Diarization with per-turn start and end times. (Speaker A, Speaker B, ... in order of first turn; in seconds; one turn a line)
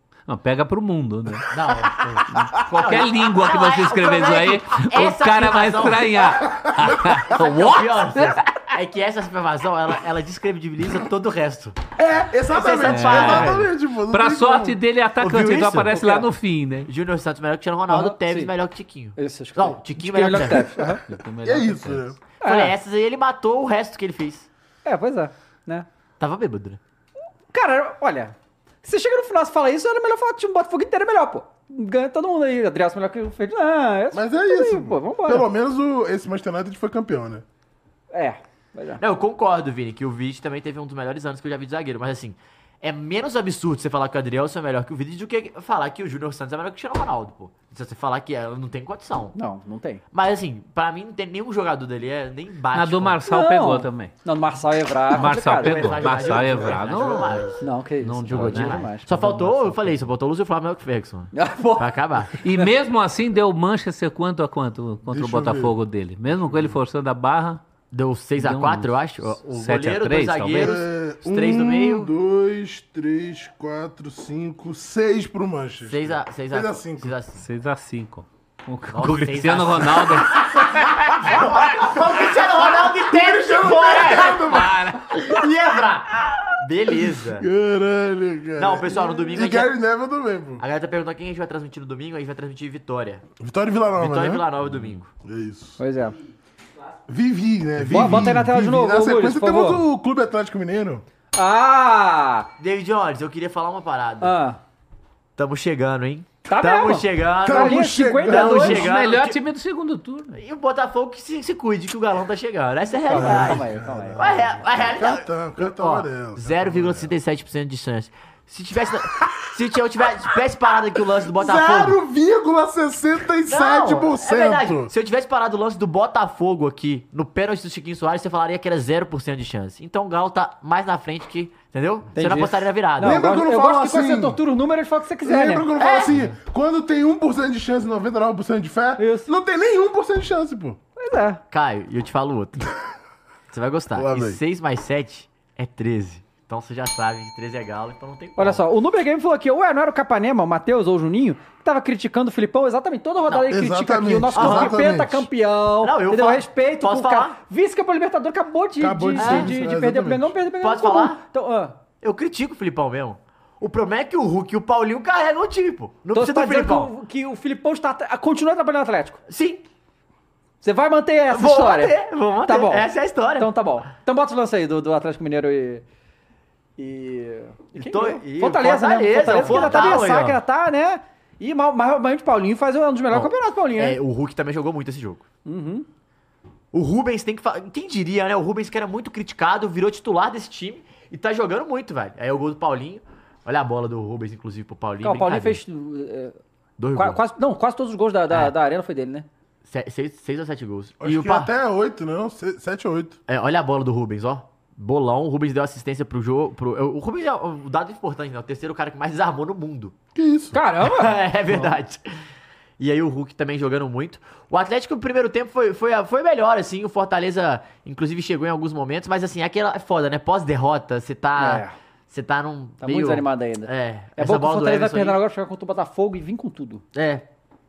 Speaker A: 0.3-1.5
Speaker B: 1.5-6.4
Speaker C: 2.0-2.5
Speaker A: 2.3-8.5
Speaker C: 6.5-7.2
Speaker B: 7.2-11.8
Speaker C: 12.0-14.8
Speaker B: 12.5-13.7
Speaker A: 12.8-16.9
Speaker B: 15.2-16.1
Speaker D: 15.9-16.3
Speaker B: 16.9-20.9
Speaker D: 17.9-18.5
Speaker D: 19.2-21.0
Speaker A: 21.1-22.1
Speaker C: 21.4-22.2
Speaker B: 22.4-24.5
Speaker D: 22.4-22.7
Speaker D: 24.9-25.9
Speaker B: 26.2-26.8
Speaker D: 27.5-35.5
Speaker C: 34.1-37.5
Speaker D: 38.1-39.0
Speaker B: 39.0-49.4
Speaker D: 49.3-50.0
Speaker B: 50.1-53.2
Speaker A: 52.7-54.1
Speaker D: 53.3-56.0
Speaker A: 55.1-57.5
Speaker B: 55.1-57.6
Speaker D: 57.6-59.1
Speaker A: 58.0-60.0
Speaker B: 58.3-62.4
Speaker D: 61.3-62.0
Speaker A: 62.4-67.6
Speaker C: 65.1-65.7
Speaker B: 67.9-72.1
Speaker A: 68.4-70.8
Speaker C: 70.6-77.1
Speaker B: 75.8-77.4
Speaker A: 77.4-81.3
Speaker B: 78.9-84.5
Speaker C: 82.2-85.0
Speaker A: 84.4-85.2
Speaker B: 85.2-87.5
Speaker C: 87.3-90.6
Speaker B: 88.6-89.7
Speaker B: 90.6-93.2
Speaker C: 93.4-94.5
Speaker B: 94.0-95.1
Speaker C: 95.2-95.8
Speaker D: 95.8-96.2
Speaker C: 97.1-101.0
Speaker D: 97.8-99.8
Speaker D: 101.4-102.5
Speaker B: 102.6-104.4
Speaker D: 104.2-104.6
Speaker B: 105.4-109.4
Speaker D: 106.5-108.9
Speaker C: 107.4-108.9
Speaker A: 108.5-110.4
Speaker B: 110.3-122.0
Speaker D: 113.1-114.2
Speaker C: 113.1-117.1
Speaker C: 121.3-124.9
Speaker B: 123.5-133.2
Speaker D: 132.1-136.1
Speaker C: 133.0-134.4
Speaker C: 135.2-140.8
Speaker B: 135.8-136.2
Speaker D: 139.0-139.3
Speaker D: 141.0-141.4
Speaker B: 141.5-142.7
Speaker B: 143.5-148.6
Speaker C: 143.9-144.4
Speaker D: 148.4-161.8
Speaker C: 153.3-155.3
Speaker B: 154.3-154.8
Speaker B: 155.8-157.4
Speaker C: 158.8-160.3
Speaker B: 159.2-159.5
Speaker B: 160.6-161.2
Speaker B: 162.0-166.9
Speaker D: 166.1-169.2
Speaker B: 169.3-169.6
Speaker D: 170.6-175.8
Speaker B: 171.3-173.5
Speaker D: 176.8-184.0
Speaker B: 177.8-180.4
Speaker B: 183.1-185.3
Speaker D: 185.4-185.9
Speaker B: 186.7-195.6
Speaker D: 195.0-196.4
Speaker B: 196.8-197.2
Speaker D: 196.9-199.3
Speaker B: 199.7-201.5
Speaker C: 201.0-203.2
Speaker B: 203.3-210.0
Speaker C: 210.2-210.6
Speaker D: 210.5-211.7
Speaker B: 210.8-212.1
Speaker B: 212.8-225.2
Speaker D: 221.4-221.7
Speaker D: 222.8-226.8
Speaker B: 226.9-227.3